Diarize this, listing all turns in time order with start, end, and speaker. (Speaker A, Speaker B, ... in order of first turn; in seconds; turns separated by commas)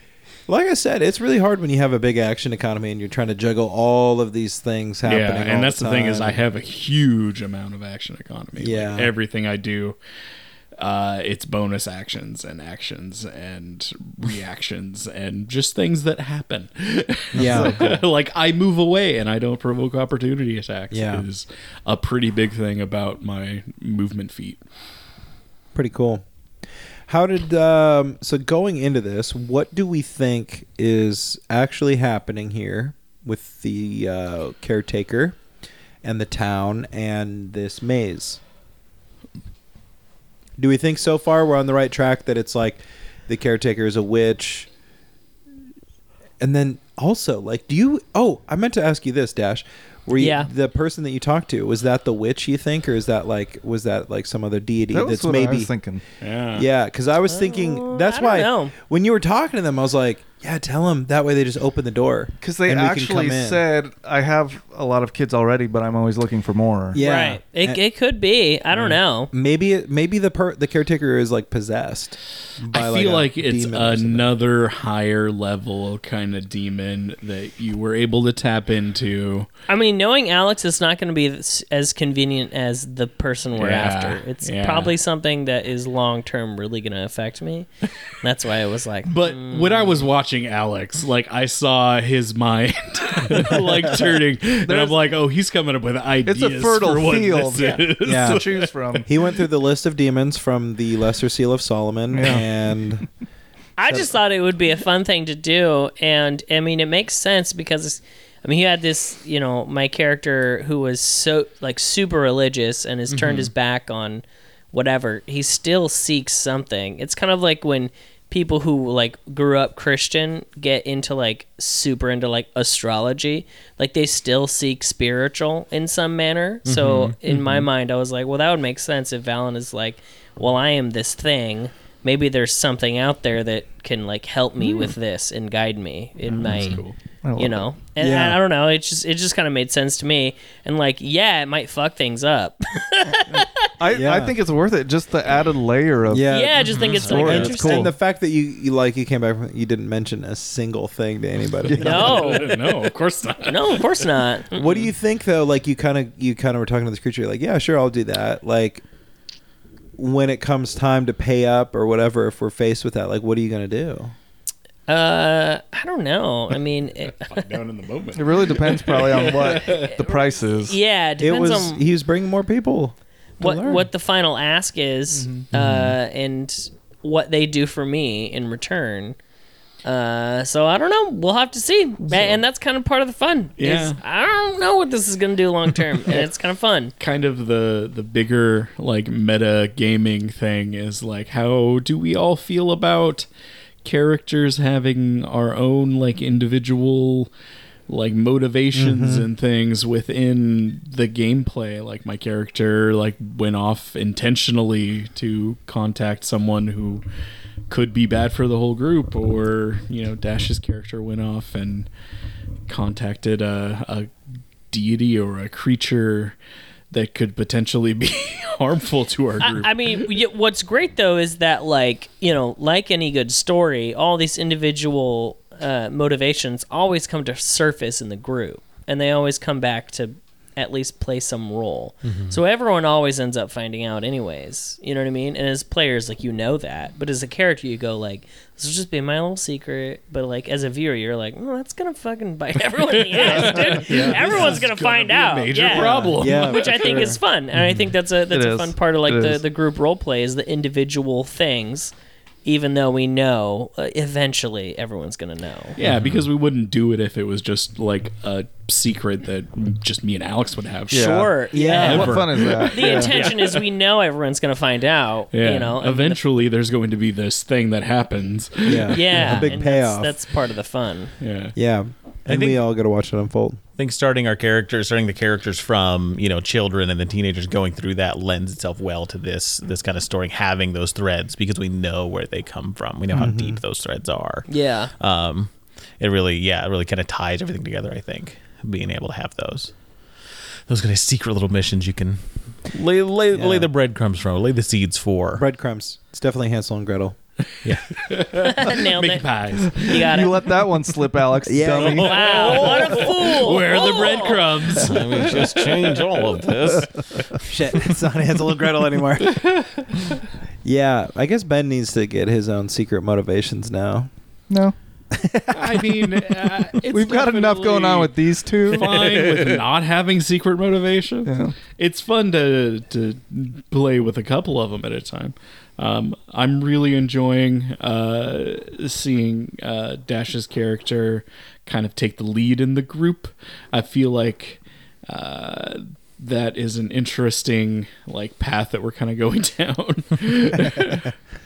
Speaker A: 0.5-6.4, Speaker B: 5.0-10.0, Speaker A: 8.6-9.1, Speaker B: 10.8-24.6, Speaker A: 17.3-17.9, Speaker C: 17.4-18.0, Speaker A: 20.9-21.2, Speaker A: 25.7-26.2, Speaker A: 27.1-35.4, Speaker A: 36.0-38.4, Speaker A: 40.6-44.7, Speaker A: 46.4-55.7, Speaker D: 50.1-50.5, Speaker C: 54.9-56.0, Speaker B: 56.2-56.7, Speaker A: 56.5-63.6, Speaker D: 57.3-58.7, Speaker C: 62.4-67.0, Speaker A: 66.9-67.8, Speaker D: 67.0-69.3, Speaker A: 69.3-74.3, Speaker B: 72.7-79.5, Speaker D: 79.7-90.1, Speaker B: 83.5-85.0, Speaker B: 89.0-99.0, Speaker C: 94.7-95.0, Speaker C: 96.2-99.1, Speaker A: 98.0-98.4, Speaker A: 99.0-103.0, Speaker C: 102.1-102.5, Speaker D: 103.8-136.8, Speaker E: 113.1-113.5, Speaker E: 126.7-127.2, Speaker B: 127.3-127.6, Speaker B: 136.3-136.9, Speaker E: 136.5-136.8, Speaker C: 137.2-137.6, Speaker D: 137.4-143.7, Speaker A: 138.0-138.4, Speaker C: 143.3-146.3, Speaker A: 143.9-144.3, Speaker A: 146.1-152.5, Speaker D: 146.3-147.9, Speaker E: 146.7-147.3, Speaker C: 147.0-147.9, Speaker C: 151.7-152.0, Speaker B: 151.7-154.1, Speaker D: 151.8-152.6, Speaker D: 153.4-154.9, Speaker A: 154.5-158.8, Speaker A: 160.0-164.1, Speaker D: 164.9-167.6, Speaker B: 167.2-169.9, Speaker C: 168.1-170.8, Speaker D: 169.2-171.8, Speaker A: 171.2-173.9, Speaker D: 173.4-179.2, Speaker C: 175.2-175.4, Speaker D: 179.8-186.9, Speaker B: 182.1-182.4, Speaker B: 183.6-184.0, Speaker B: 187.0-193.3, Speaker B: 193.8-197.3, Speaker B: 197.9-207.0, Speaker A: 198.7-199.3, Speaker B: 207.7-211.9, Speaker B: 212.7-214.1, Speaker B: 214.7-216.4, Speaker B: 216.9-220.1, Speaker D: 219.4-251.9, Speaker E: 232.0-232.4, Speaker B: 242.9-247.1, Speaker C: 243.5-243.8, Speaker A: 245.7-247.2, Speaker C: 248.3-249.4, Speaker D: 252.4-255.8, Speaker B: 255.8-263.6, Speaker E: 255.8-256.2, Speaker C: 260.9-263.1, Speaker D: 260.9-266.2, Speaker A: 261.5-262.2, Speaker E: 263.1-263.4, Speaker B: 265.3-269.6, Speaker A: 268.6-270.2, Speaker D: 268.9-271.1, Speaker B: 271.2-271.5, Speaker A: 271.6-273.6, Speaker E: 272.3-272.6, Speaker E: 273.8-289.7, Speaker A: 283.1-283.6, Speaker D: 284.5-284.9, Speaker E: 290.7-295.4, Speaker A: 293.3-293.7, Speaker A: 295.4-297.2, Speaker B: 297.6-300.1, Speaker E: 297.6-298.0, Speaker D: 298.4-300.4, Speaker C: 299.9-302.3, Speaker A: 301.4-302.7, Speaker E: 301.7-303.2, Speaker D: 301.8-304.5, Speaker B: 302.4-305.7, Speaker E: 304.7-307.5, Speaker A: 307.4-309.4, Speaker B: 309.2-310.2, Speaker A: 310.6-314.1, Speaker C: 314.5-314.7, Speaker A: 315.1-316.2, Speaker B: 315.5-341.1, Speaker C: 316.8-319.2, Speaker C: 321.2-321.5